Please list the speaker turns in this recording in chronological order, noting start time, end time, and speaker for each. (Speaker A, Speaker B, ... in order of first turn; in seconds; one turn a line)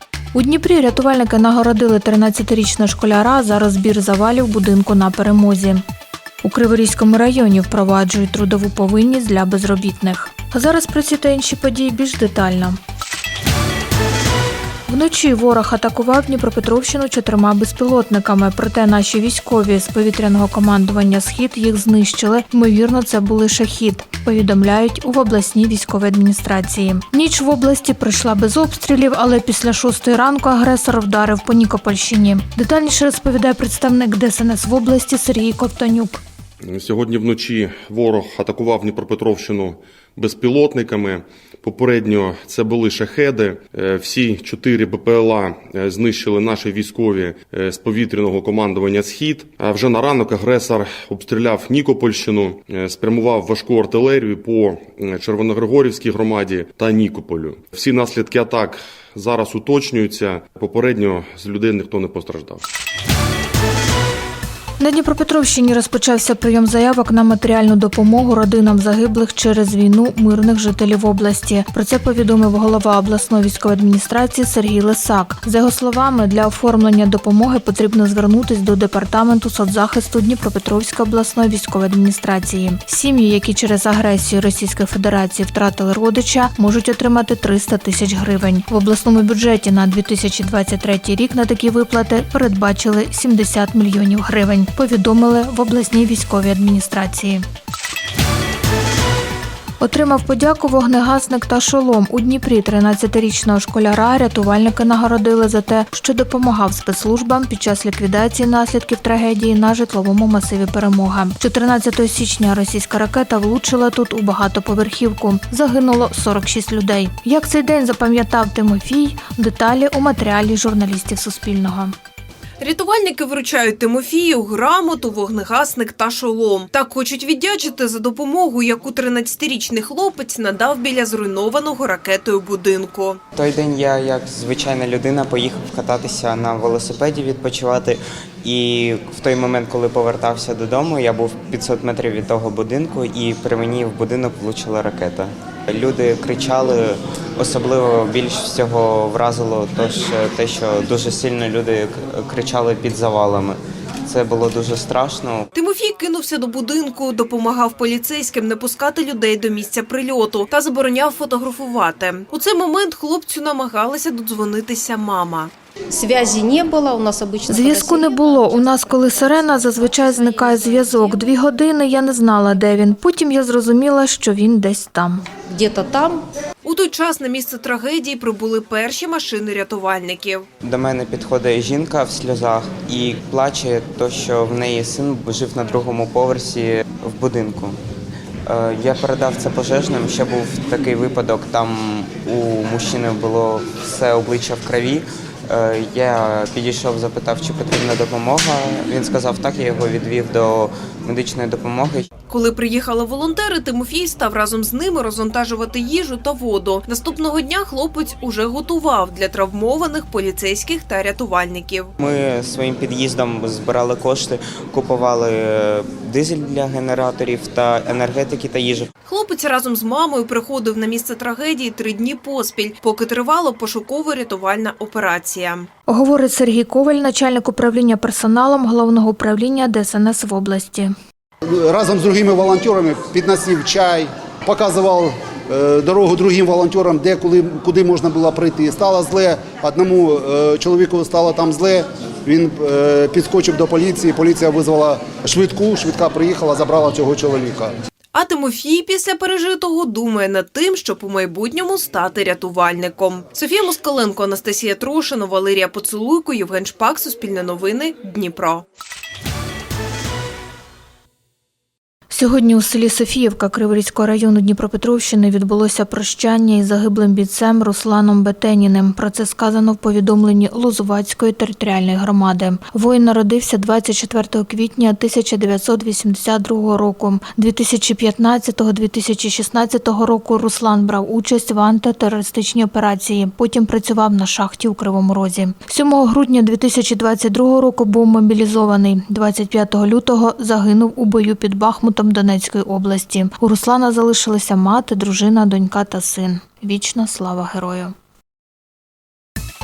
Speaker A: 0.3-5.8
Speaker A: 6.4-12.8
Speaker A: 14.9-36.2
Speaker B: 36.6-62.6
Speaker A: 64.8-97.4
Speaker A: 99.8-121.9
Speaker C: 122.6-133.2
Speaker D: 133.3-155.4
Speaker C: 155.5-165.5
Speaker E: 165.9-171.2
Speaker A: 167.5-175.2
Speaker E: 175.5-176.2
Speaker C: 176.6-180.4
Speaker D: 180.6-187.8
Speaker D: 188.4-202.1
Speaker C: 202.3-211.9
Speaker D: 212.0-218.9
Speaker C: 219.1-225.7
Speaker A: 225.9-230.9
Speaker F: 231.4-247.7
Speaker C: 248.1-258.6
Speaker A: 262.1-297.9